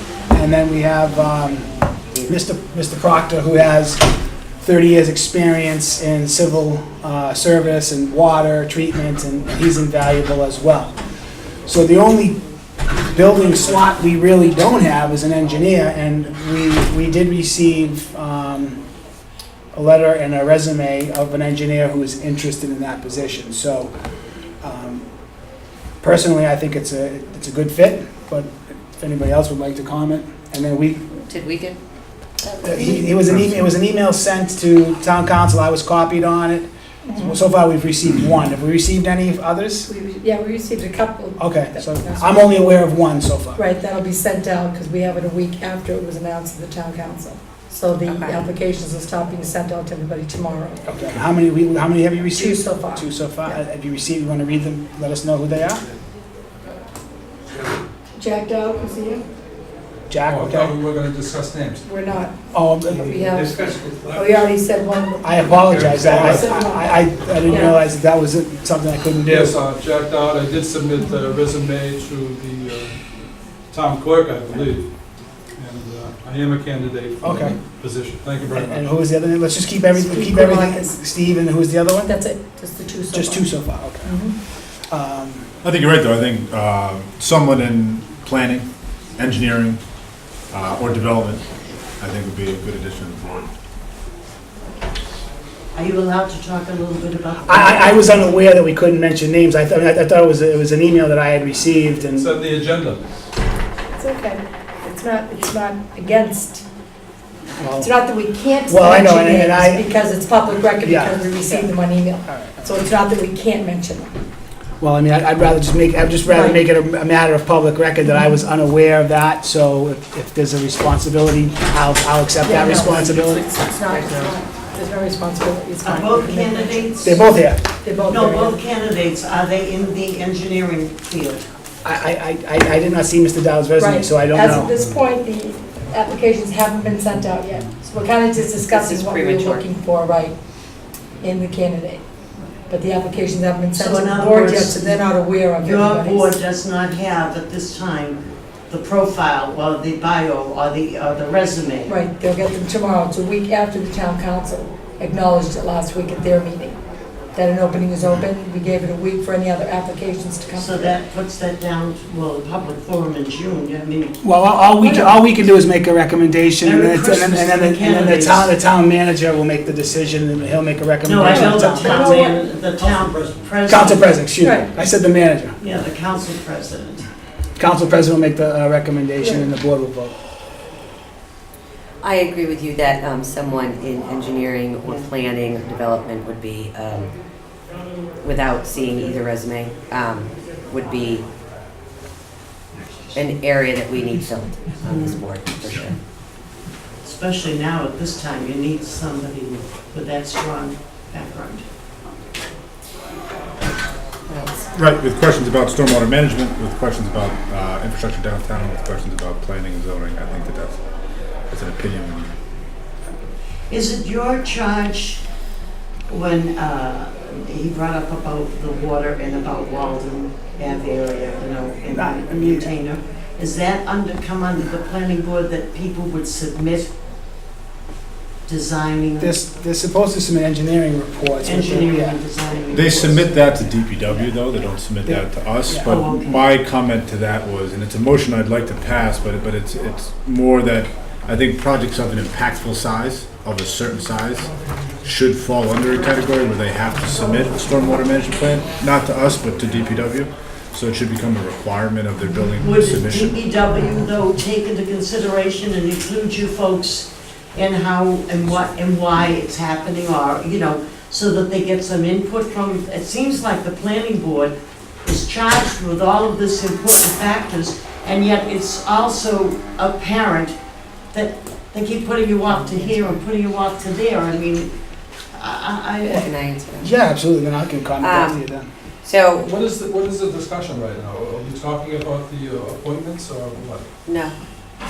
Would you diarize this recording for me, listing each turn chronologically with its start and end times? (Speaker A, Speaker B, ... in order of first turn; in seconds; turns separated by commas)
Speaker A: 0.3-4.0, Speaker A: 4.6-11.0, Speaker A: 11.7-12.4, Speaker A: 13.1-18.8, Speaker A: 19.7-23.9, Speaker A: 24.6-25.1, Speaker A: 26.0-31.0, Speaker B: 31.3-31.8, Speaker B: 32.5-32.8, Speaker A: 32.6-39.9, Speaker C: 33.3-33.6, Speaker D: 37.0-37.4, Speaker D: 39.9-42.8, Speaker A: 41.4-43.6, Speaker D: 43.6-50.8, Speaker B: 48.1-48.4, Speaker A: 50.9-55.8, Speaker D: 52.3-53.1, Speaker D: 58.2-59.2, Speaker A: 60.1-60.7, Speaker E: 60.3-61.8, Speaker D: 61.8-65.5, Speaker A: 62.5-63.3, Speaker E: 63.3-64.3, Speaker A: 65.2-69.6, Speaker E: 65.7-66.5, Speaker D: 66.2-66.9, Speaker D: 67.5-67.8, Speaker E: 69.3-73.0, Speaker E: 73.7-74.9, Speaker E: 75.6-78.9, Speaker A: 77.2-77.6, Speaker A: 78.5-82.1, Speaker D: 79.9-81.0, Speaker D: 82.0-83.5, Speaker A: 83.1-84.2, Speaker D: 84.0-84.3, Speaker A: 84.9-85.5, Speaker C: 85.6-89.8, Speaker C: 90.5-91.5, Speaker C: 92.0-93.5, Speaker F: 95.7-98.4, Speaker A: 97.5-102.3, Speaker E: 102.0-103.0, Speaker D: 104.0-106.6, Speaker A: 107.6-107.9, Speaker D: 107.8-114.1, Speaker A: 108.7-109.9, Speaker A: 110.8-111.7, Speaker A: 112.3-112.7, Speaker A: 114.8-123.5, Speaker D: 116.3-116.6, Speaker D: 122.4-126.9, Speaker F: 125.8-127.3, Speaker A: 127.0-127.6, Speaker D: 127.8-128.6, Speaker F: 128.0-131.5, Speaker A: 131.8-134.7, Speaker D: 133.8-140.3, Speaker E: 134.5-135.1, Speaker B: 138.7-139.7, Speaker D: 141.2-142.0, Speaker D: 142.7-146.4, Speaker F: 143.7-145.0, Speaker F: 145.6-152.0, Speaker D: 151.9-156.8, Speaker D: 157.3-161.0, Speaker F: 160.6-164.2, Speaker A: 164.2-172.2, Speaker D: 164.8-165.2, Speaker F: 166.6-168.5, Speaker F: 171.1-174.2, Speaker D: 171.3-172.4, Speaker A: 173.7-175.6, Speaker D: 174.4-174.7, Speaker F: 175.6-177.1, Speaker A: 177.6-180.2, Speaker D: 179.2-179.5, Speaker B: 182.0-187.1, Speaker F: 184.8-185.1, Speaker B: 188.2-191.2, Speaker B: 193.1-195.9, Speaker F: 194.8-195.2, Speaker F: 197.0-201.6, Speaker B: 204.3-204.7, Speaker C: 204.7-210.8, Speaker C: 211.5-212.3, Speaker F: 213.7-215.2, Speaker F: 216.1-226.9, Speaker A: 221.9-222.7, Speaker F: 228.5-229.3, Speaker A: 229.2-232.2, Speaker F: 231.4-234.3, Speaker C: 232.7-244.5, Speaker A: 235.1-235.9, Speaker F: 235.8-236.4, Speaker C: 245.0-253.4, Speaker F: 252.6-270.6, Speaker F: 271.1-274.7, Speaker F: 275.3-276.3, Speaker B: 276.1-276.9, Speaker A: 276.8-278.7, Speaker B: 278.0-278.4, Speaker B: 279.0-279.5, Speaker E: 279.4-283.9, Speaker B: 284.1-284.3